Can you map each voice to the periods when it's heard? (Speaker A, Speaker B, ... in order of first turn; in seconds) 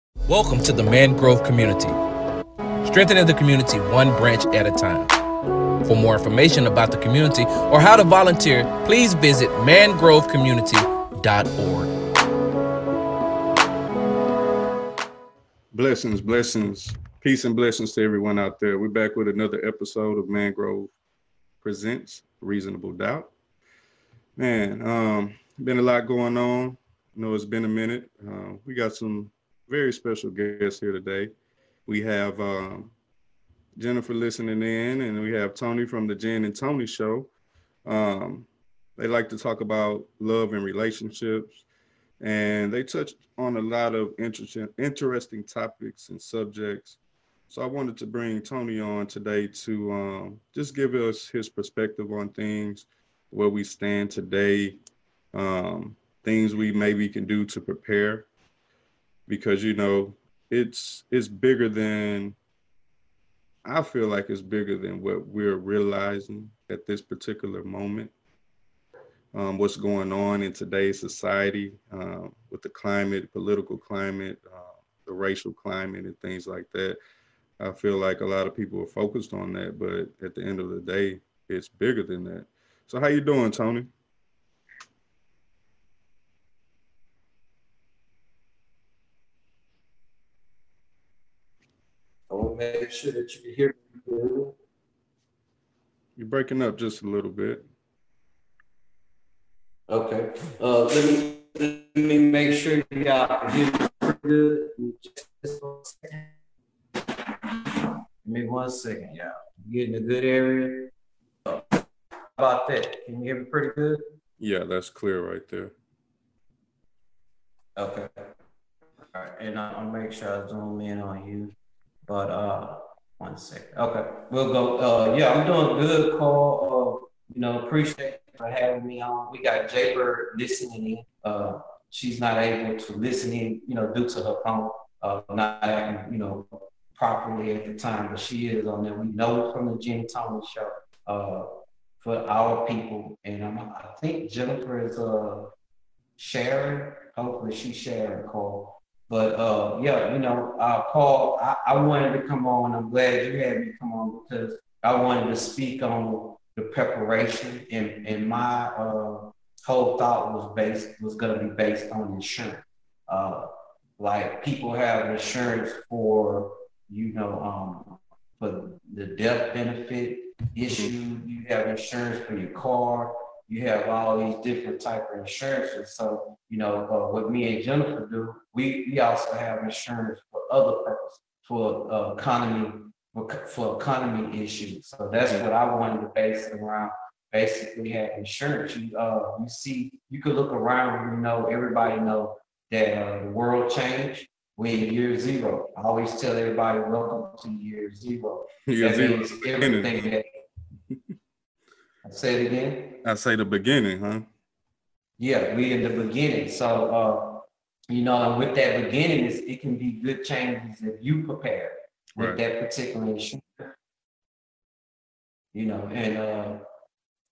Speaker A: 0.3-2.0, 2.8-5.2, 5.8-11.9
Speaker B: 15.7-20.9, 21.6-23.3, 24.4-31.3, 31.9-32.9, 33.8-37.3, 37.9-41.6, 42.2-54.8, 55.3-58.3, 59.3-62.4, 63.6-68.1, 69.3-77.0, 77.6-83.9, 96.2-97.7, 114.4-115.7, 198.7-200.1, 203.0-204.3, 212.2-212.4
Speaker C: 92.3-94.5, 99.9-106.3, 107.7-110.9, 111.5-111.8, 112.4-114.1, 117.8-118.3, 119.1-121.5, 122.1-141.5, 142.0-145.5, 146.2-200.3, 202.0-203.0, 205.2-213.7, 215.5-216.6